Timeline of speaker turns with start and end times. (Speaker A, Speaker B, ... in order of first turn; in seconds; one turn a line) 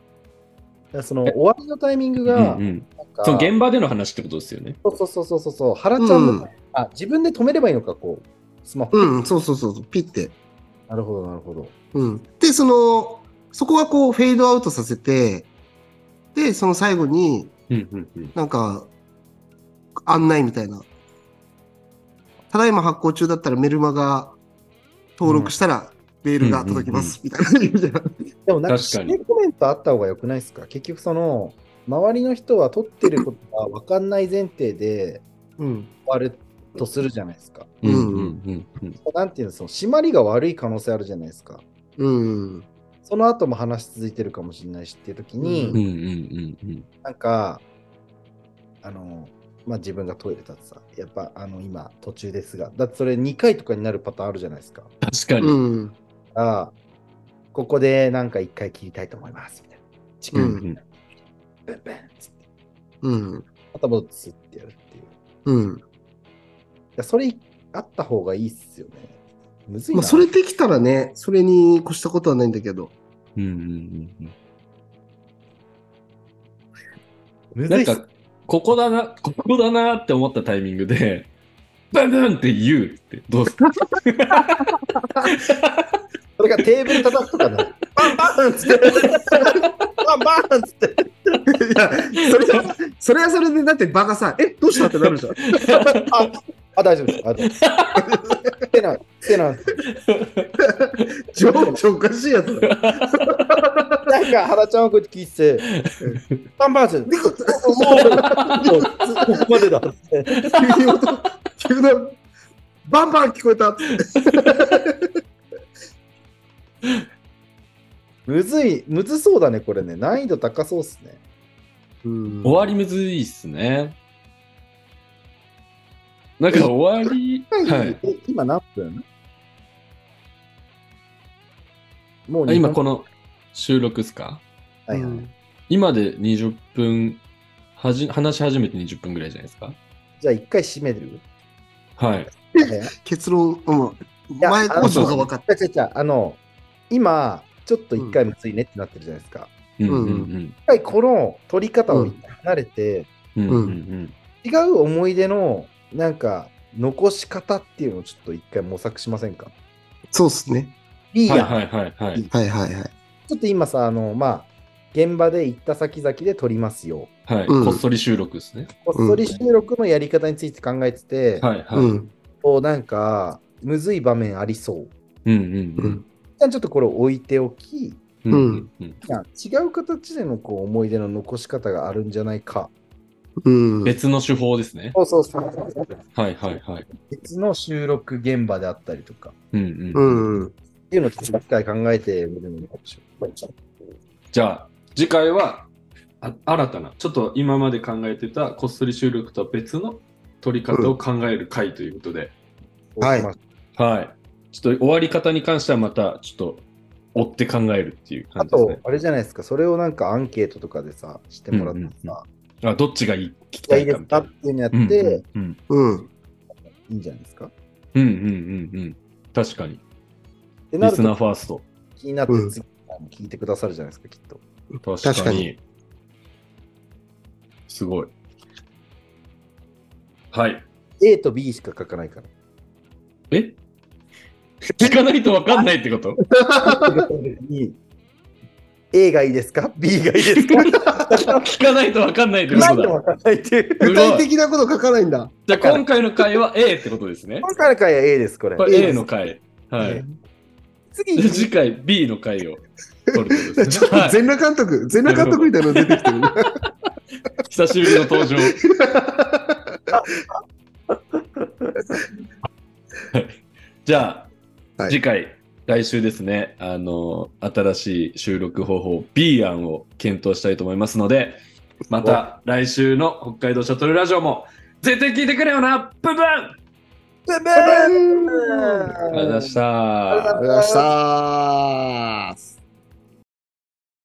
Speaker A: 0.9-3.5
Speaker B: 2.2-4.8
Speaker A: 4.8-9.1
Speaker C: 6.0-6.5
Speaker C: 8.9-10.3
Speaker A: 10.9-11.7
Speaker C: 11.9-15.5
Speaker C: 16.4-17.5
Speaker B: 17.7-18.4
Speaker C: 18.4-18.9
Speaker C: 20.1-20.9
Speaker C: 22.5-24.4
Speaker C: 25.2-28.1
Speaker A: 25.2-25.5
Speaker B: 26.4-27.1
Speaker A: 28.5-35.3
Speaker B: 28.7-29.2
Speaker C: 35.6-35.9
Speaker A: 36.1-37.7
Speaker B: 37.8-39.0
Speaker C: 37.8-38.4
Speaker A: 39.0-41.6
Speaker C: 42.0-42.7
Speaker A: 43.0-45.8
Speaker C: 45.4-45.8
Speaker B: 45.7-46.9
Speaker A: 47.0-47.6
Speaker A: 48.8-54.9
Speaker B: 55.0-55.6
Speaker C: 55.4-56.0
Speaker A: 56.4-56.8
Speaker A: 57.5-60.8
Speaker C: 60.3-60.6
Speaker B: 60.3-60.8
Speaker A: 61.7-62.4
Speaker C: 63.0-63.5
Speaker A: 63.7-65.2
Speaker C: 65.5-65.8
Speaker A: 67.0-70.3
Speaker C: 69.9-72.9
Speaker B: 73.4-74.3
Speaker A: 77.5-78.0
Speaker B: 77.7-81.3
Speaker B: 81.9-85.9
Speaker A: 86.4-91.4
Speaker C: 91.5-96.0
Speaker B: 94.8-96.1
Speaker A: 96.1-97.6
Speaker B: 97.5-98.1
Speaker C: 98.0-98.6
Speaker A: 98.7-99.8
Speaker B: 99.9-100.5
Speaker C: 100.6-104.0
Speaker B: 102.6-103.4
Speaker A: 104.1-105.7
Speaker A: 106.6-110.5
Speaker C: 107.1-109.3
Speaker C: 110.5-112.2
Speaker C: 112.9-115.1
Speaker A: 118.3-121.2
Speaker C: 122.0-122.7
Speaker B: 122.4-124.0
Speaker B: 126.4-128.0
Speaker A: 127.5-129.0
Speaker A: 132.3-132.8
Speaker B: 132.5-134.4
Speaker A: 134.9-135.3
Speaker C: 134.9-135.3
Speaker B: 135.7-137.2
Speaker B: 137.8-139.8
Speaker A: 140.2-141.2
Speaker B: 142.0-142.3
Speaker C: 142.5-145.4
Speaker A: 142.6-142.9
Speaker A: 144.4-149.5
Speaker B: 144.8-145.2
Speaker B: 149.8-150.6
Speaker C: 149.9-150.3
Speaker A: 150.7-153.1
Speaker C: 151.9-152.2
Speaker B: 153.4-154.2
Speaker C: 153.5-153.8
Speaker A: 154.4-159.5
Speaker C: 160.1-160.7
Speaker A: 161.1-161.6
Speaker B: 161.3-162.2
Speaker C: 162.3-162.9
Speaker A: 163.3-167.1
Speaker B: 167.3-168.7
Speaker C: 167.5-167.8
Speaker A: 168.8-171.5
Speaker C: 168.9-169.2
Speaker B: 171.4-172.0
Speaker C: 171.7-172.1
Speaker A: 172.4-174.9
Speaker B: 175.3-176.0
Speaker C: 175.8-176.0
Speaker A: 176.4-178.0
Speaker B: 178.2-179.0
Speaker C: 178.3-178.7
Speaker A: 179.0-182.7
Speaker C: 183.4-183.9
Speaker B: 183.8-185.0
Speaker A: 184.9-186.0
Speaker B: 186.2-186.9
Speaker A: 187.1-189.3
Speaker B: 189.5-190.3
Speaker C: 189.9-190.5
Speaker A: 190.9-193.5
Speaker B: 194.3-195.7
Speaker B: 196.2-202.3
Speaker A: 202.9-203.4
Speaker C: 203.0-203.3
Speaker B: 203.8-208.8
Speaker A: 208.4-212.2
Speaker B: 211.5-215.6
Speaker A: 213.7-215.2
Speaker C: 215.7-216.1
Speaker A: 216.7-217.5
Speaker B: 217.9-219.8
Speaker A: 220.7-221.2
Speaker B: 220.8-221.7
Speaker A: 222.0-224.4
Speaker C: 222.3-222.6
Speaker B: 224.8-225.6
Speaker C: 225.0-225.5
Speaker B: 227.7-228.1
Speaker B: 230.3-230.7
Speaker A: 231.0-232.3
Speaker B: 233.3-233.6
Speaker B: 234.8-236.2
Speaker C: 236.4-236.9
Speaker A: 236.6-237.8
Speaker A: 238.9-241.5
Speaker B: 240.4-243.0
Speaker A: 242.5-243.9
Speaker B: 243.8-244.3
Speaker C: 243.8-245.4
Speaker B: 245.5-247.5
Speaker A: 245.5-245.8
Speaker A: 247.4-249.1
Speaker B: 248.6-250.0
Speaker C: 248.6-249.0
Speaker A: 249.8-250.1
Speaker A: 250.9-251.5
Speaker B: 251.2-254.2
Speaker C: 253.5-256.5
Speaker B: 255.0-256.2
Speaker B: 257.4-258.6
Speaker C: 258.0-259.8
Speaker B: 263.1-264.3
Speaker B: 264.9-276.6
Speaker A: 277.3-279.5
Speaker C: 277.6-279.0
Speaker B: 279.1-280.4
Speaker A: 280.1-280.9
Speaker C: 280.4-282.0